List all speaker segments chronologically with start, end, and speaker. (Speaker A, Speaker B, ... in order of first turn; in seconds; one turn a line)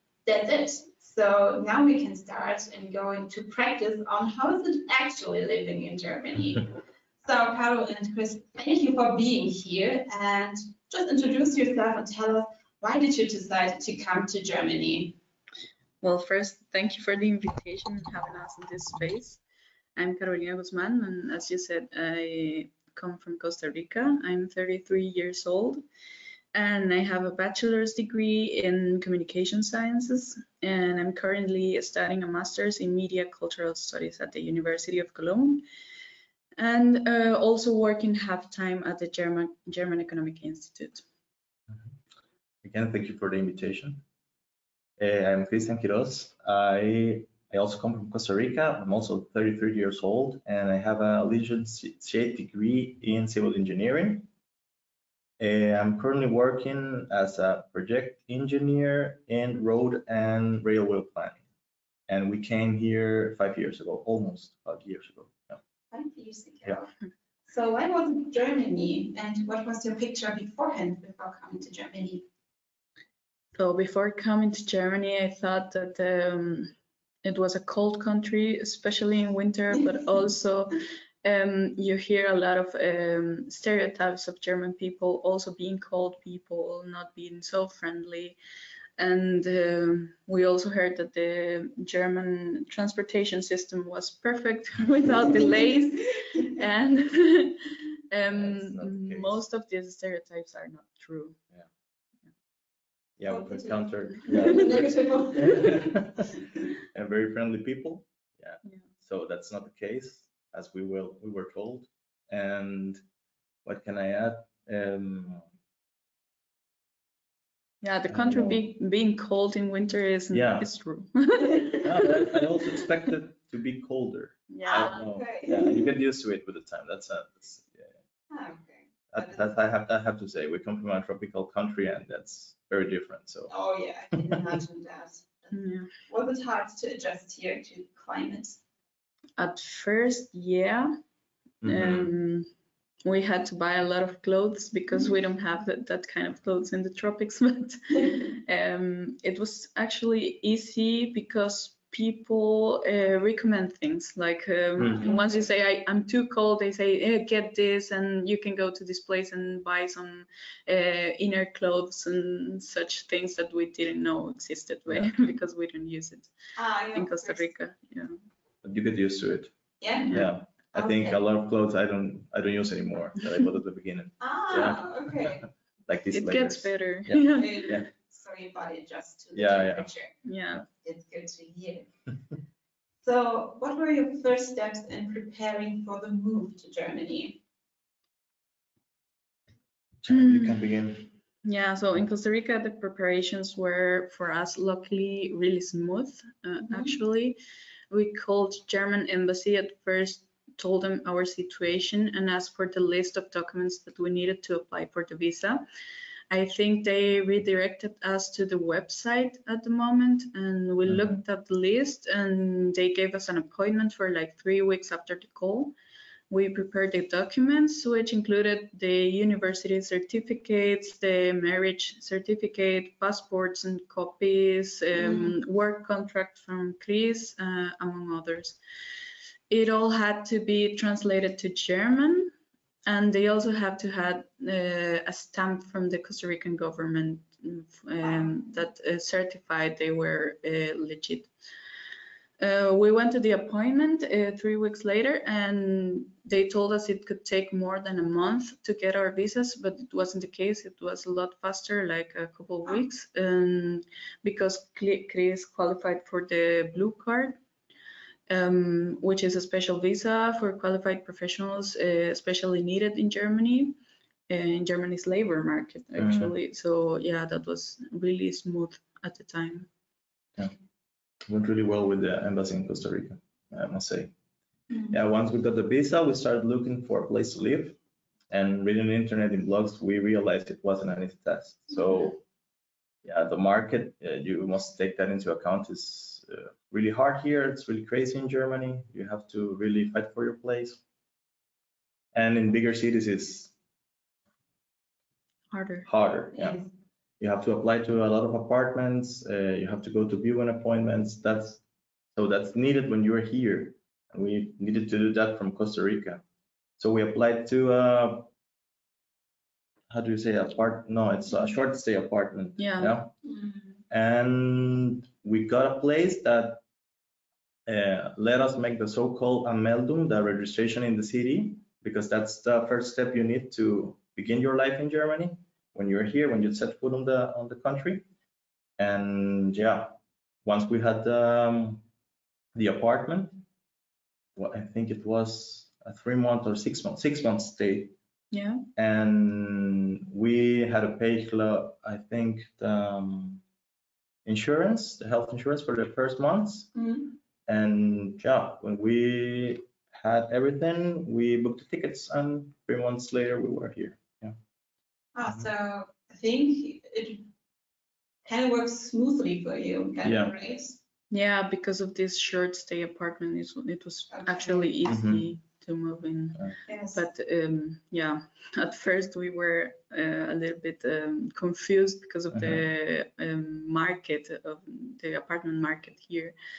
Speaker A: 0.2-15.2
Speaker B: 16.0-19.4
Speaker B: 19.9-25.8
Speaker B: 26.5-35.6
Speaker B: 36.6-41.0
Speaker C: 42.6-44.0
Speaker C: 45.0-54.3
Speaker C: 55.4-61.4
Speaker C: 62.1-65.6
Speaker A: 65.9-66.9
Speaker A: 67.5-72.2
Speaker B: 73.5-88.4
Speaker B: 89.0-101.4
Speaker A: 95.4-95.7
Speaker C: 98.2-99.4
Speaker C: 103.2-113.0
Speaker A: 103.3-106.5
Speaker B: 104.2-104.5
Speaker C: 113.6-115.5
Speaker B: 117.8-122.3
Speaker C: 118.1-118.6
Speaker C: 120.3-120.7
Speaker C: 121.8-127.9
Speaker B: 124.5-125.0
Speaker A: 124.7-125.9
Speaker A: 128.3-129.5
Speaker C: 129.1-133.5
Speaker A: 133.5-138.6
Speaker C: 134.2-134.6
Speaker B: 135.5-135.9
Speaker B: 139.4-140.9
Speaker C: 141.6-142.1
Speaker B: 141.7-142.5
Speaker B: 143.0-166.3
Speaker C: 154.8-155.1
Speaker A: 166.6-167.5
Speaker B: 166.9-168.2
Speaker C: 168.6-169.5
Speaker A: 169.8-171.2
Speaker C: 170.1-177.9
Speaker A: 174.2-175.4
Speaker B: 176.1-177.8
Speaker A: 177.3-181.9
Speaker C: 179.3-179.9
Speaker B: 180.2-180.6
Speaker A: 183.0-187.4
Speaker C: 190.0-191.1
Speaker B: 190.1-190.6
Speaker B: 191.4-197.4
Speaker B: 197.9-205.6
Speaker B: 206.3-215.7
Speaker C: 210.9-211.2
Speaker B: 216.3-228.6
Speaker A: 224.9-225.3
Speaker B: 229.5-232.3
Speaker B: 232.9-241.3
Speaker A: 238.0-238.4
Speaker B: 242.4-257.4
Speaker B: 258.3-263.8
Speaker B: 264.3-269.7
Speaker C: 266.0-266.3
Speaker C: 271.2-274.1
Speaker A: 274.7-274.9
Speaker C: 274.9-277.8
Speaker C: 278.3-282.2
Speaker C: 283.0-290.8
Speaker C: 292.1-293.5
Speaker B: 295.5-295.9
Speaker C: 295.9-296.6
Speaker A: 296.3-296.7
Speaker C: 297.2-301.6
Speaker C: 302.1-306.2
Speaker C: 306.8-308.3
Speaker C: 309.9-313.1
Speaker B: 312.6-312.9
Speaker A: 313.2-313.8
Speaker C: 313.9-316.6
Speaker C: 317.6-328.0
Speaker C: 328.8-331.8
Speaker C: 332.5-333.4
Speaker C: 334.4-337.9
Speaker B: 338.3-338.6
Speaker C: 338.8-343.4
Speaker C: 344.2-346.7
Speaker A: 346.7-347.2
Speaker C: 347.5-354.4
Speaker A: 355.1-357.2
Speaker A: 358.2-360.8
Speaker C: 360.0-360.3
Speaker B: 361.1-376.3
Speaker A: 364.1-364.8
Speaker C: 364.9-365.3
Speaker A: 366.7-367.0
Speaker C: 372.3-372.6